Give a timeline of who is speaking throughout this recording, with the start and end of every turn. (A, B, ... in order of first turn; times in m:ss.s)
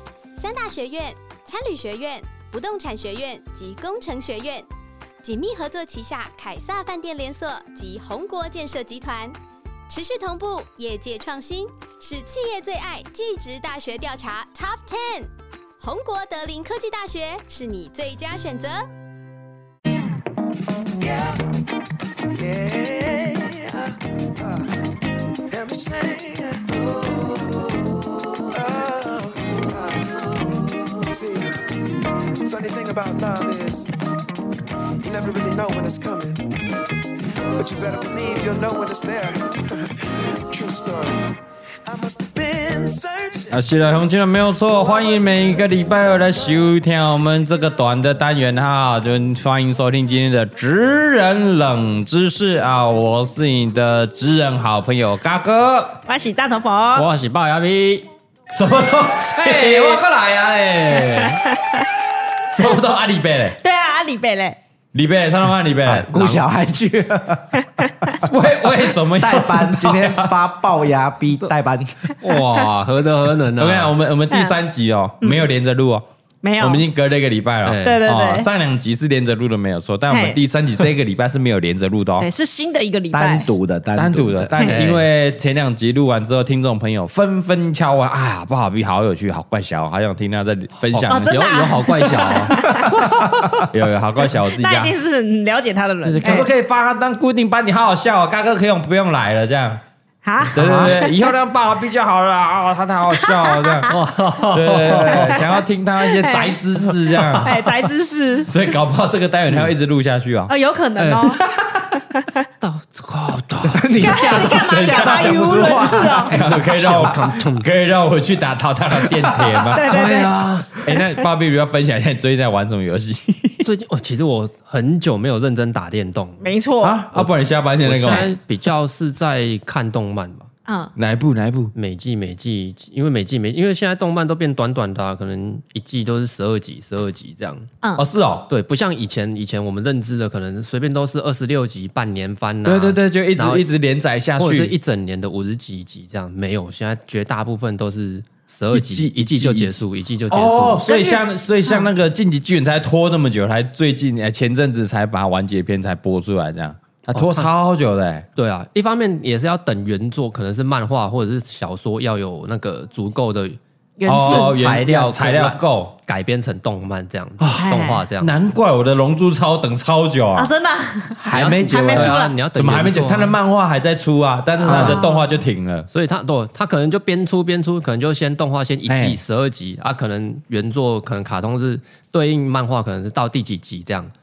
0:00.4-0:04.7 A
0:05.2-0:09.3 A
0:09.9-0:18.8 A
0:20.9-0:21.7 B
0:22.3-0:24.8 B
0:25.4-0:33.9 B
0:35.0-0:41.3 B
0:41.8-0:43.6 B
0:43.5-0:56.0 C
0:44.8-0:45.7 B
0:56.1-0:57.1 D
0:56.9-0:58.1 E
0:58.5-1:00.1 C
0:59.4-1:01.4 E
1:00.8-1:01.3 C
1:01.1-1:01.9 D
1:02.5-1:03.6 C
1:03.6-1:04.6 D
1:04.9-1:06.4 C
1:05.8-1:07.6 F
1:07.6-1:08.2 D
1:08.2-1:10.3 C
1:09.1-1:12.1 F
1:12.2-1:13.9 E
1:13.6-1:16.1 C
1:14.3-1:14.6 D
1:16.4-1:16.8 D
1:16.6-1:22.3 C
1:17.6-1:18.0 E
1:17.8-1:18.5 D
1:20.1-1:20.4 D
1:22.2-1:23.5 D
1:23.1-1:24.6 F
1:24.0-1:32.6 C
1:24.6-1:25.0 E
1:30.8-1:33.4 E
1:31.1-1:33.6 D
1:33.7-1:34.9 C
1:34.5-1:36.5 D
1:36.0-1:36.4 E
1:36.2-1:39.8 C
1:40.2-1:41.2 D
1:40.5-1:41.0 E
1:40.5-1:43.9 C
1:43.2-1:43.9 D
1:43.9-1:45.4 E
1:44.5-1:47.5 C
1:45.2-1:46.6 D
1:47.0-1:47.6 E
1:47.4-1:48.5 D
1:48.4-1:50.5 C
1:50.5-1:51.4 D
1:51.0-1:51.4 E
1:52.0-1:52.4 D
1:52.6-1:54.2 E
1:53.7-1:57.2 F
1:54.0-2:00.1 C
1:54.0-1:56.3 D
1:56.3-1:57.7 E
1:59.1-1:59.6 F
1:59.7-2:00.3 D
1:59.9-2:00.8 E
2:00.8-2:03.6 C
2:03.6-2:06.5 E
2:06.4-2:07.0 D
2:06.8-2:08.3 C
2:07.1-2:10.5 E
2:10.6-2:10.9 D
2:11.0-2:11.7 C
2:11.7-2:17.7 E
2:18.0-2:18.5 C
2:18.5-2:23.7 E
2:22.6-2:24.7 C
2:24.4-2:30.9 E
2:28.7-2:29.8 C
2:30.3-2:38.2 C
2:30.8-2:31.9 D
2:37.1-2:37.5 E
2:38.4-2:48.3 E
2:44.0-2:44.6 D
2:44.1-2:45.9 C
2:47.4-2:50.5 C
2:47.6-2:48.0 D
2:50.4-2:52.4 D
2:51.2-2:52.2 F
2:51.3-2:53.4 E
2:52.5-2:55.9 C
2:54.6-2:55.3 D
2:54.7-2:55.0 E
2:55.9-3:04.1 E
2:58.9-2:59.2 C